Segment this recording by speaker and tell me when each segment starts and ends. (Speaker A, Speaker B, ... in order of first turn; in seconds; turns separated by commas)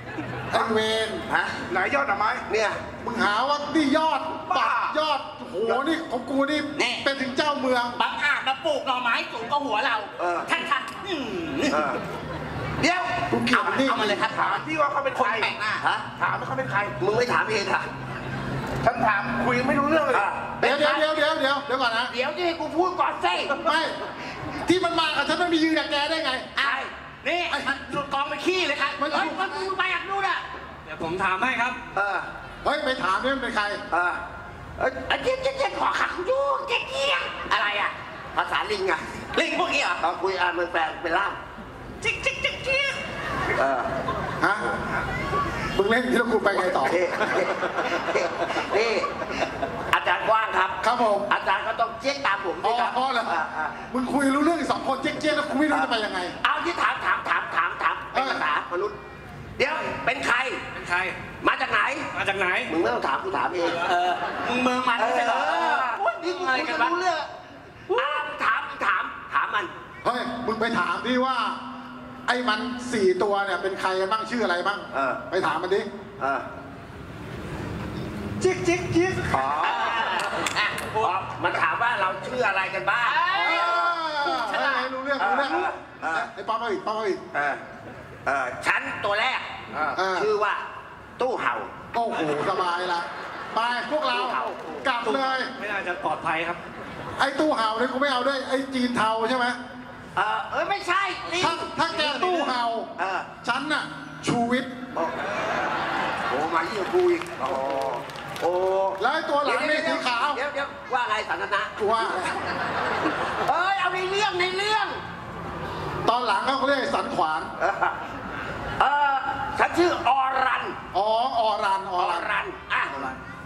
Speaker A: 0.5-1.2, Speaker B: 1.3-1.5, Speaker C: 1.7-2.5, Speaker B: 2.5-2.8, Speaker A: 3.0-8.0, Speaker C: 4.4-5.0, Speaker D: 6.8-7.1, Speaker D: 8.0-12.0, Speaker B: 10.2-10.6, Speaker B: 11.7-12.0, Speaker B: 12.8-13.3, Speaker A: 13.3-14.3, Speaker D: 13.5-15.8, Speaker C: 14.2-15.5, Speaker C: 16.2-16.9, Speaker B: 17.0-17.9, Speaker C: 18.8-20.3, Speaker B: 20.1-21.2, Speaker A: 20.6-22.1, Speaker B: 22.1-23.7, Speaker A: 23.6-24.0, Speaker A: 24.7-26.5, Speaker D: 26.6-30.4, Speaker B: 26.6-26.9, Speaker A: 27.5-27.8, Speaker A: 29.0-29.7, Speaker D: 30.9-31.8, Speaker B: 31.9-32.3, Speaker A: 32.6-33.8, Speaker B: 33.9-34.2, Speaker B: 34.8-37.5, Speaker D: 37.5-37.9, Speaker B: 38.3-39.0, Speaker D: 39.4-40.0, Speaker B: 40.0-41.4, Speaker D: 42.0-43.0, Speaker B: 43.6-43.9, Speaker A: 44.4-44.7, Speaker A: 45.8-47.0, Speaker B: 46.5-49.1, Speaker B: 49.9-53.8, Speaker A: 50.8-51.3, Speaker A: 52.6-53.4, Speaker A: 53.9-56.4, Speaker B: 56.4-59.0, Speaker A: 58.1-58.4, Speaker B: 59.6-60.6, Speaker E: 60.8-61.2, Speaker B: 61.4-62.1, Speaker E: 62.1-62.7, Speaker B: 62.7-63.9, Speaker D: 63.9-67.0, Speaker B: 65.0-67.3, Speaker B: 68.0-69.7, Speaker A: 70.0-71.6, Speaker A: 72.3-75.9, Speaker B: 74.9-75.2, Speaker B: 76.2-76.5, Speaker B: 79.3-80.3, Speaker D: 79.4-81.1, Speaker B: 81.0-84.0, Speaker D: 83.1-84.9, Speaker A: 83.4-87.2, Speaker B: 85.2-86.3, Speaker B: 87.3-87.6, Speaker B: 88.3-89.5, Speaker A: 89.9-90.3, Speaker B: 90.0-90.6, Speaker B: 91.2-91.8, Speaker A: 91.9-95.5, Speaker B: 93.8-94.9, Speaker E: 94.9-96.6, Speaker A: 97.2-99.6, Speaker B: 100.2-101.7, Speaker A: 101.3-102.9, Speaker E: 101.9-102.5, Speaker B: 103.0-103.3, Speaker A: 103.4-104.7, Speaker B: 106.3-112.3, Speaker A: 109.0-110.4, Speaker A: 111.8-112.3, Speaker B: 113.4-115.0, Speaker A: 116.1-117.5, Speaker B: 117.6-118.0, Speaker B: 118.8-120.8, Speaker A: 120.9-122.3, Speaker B: 122.0-123.2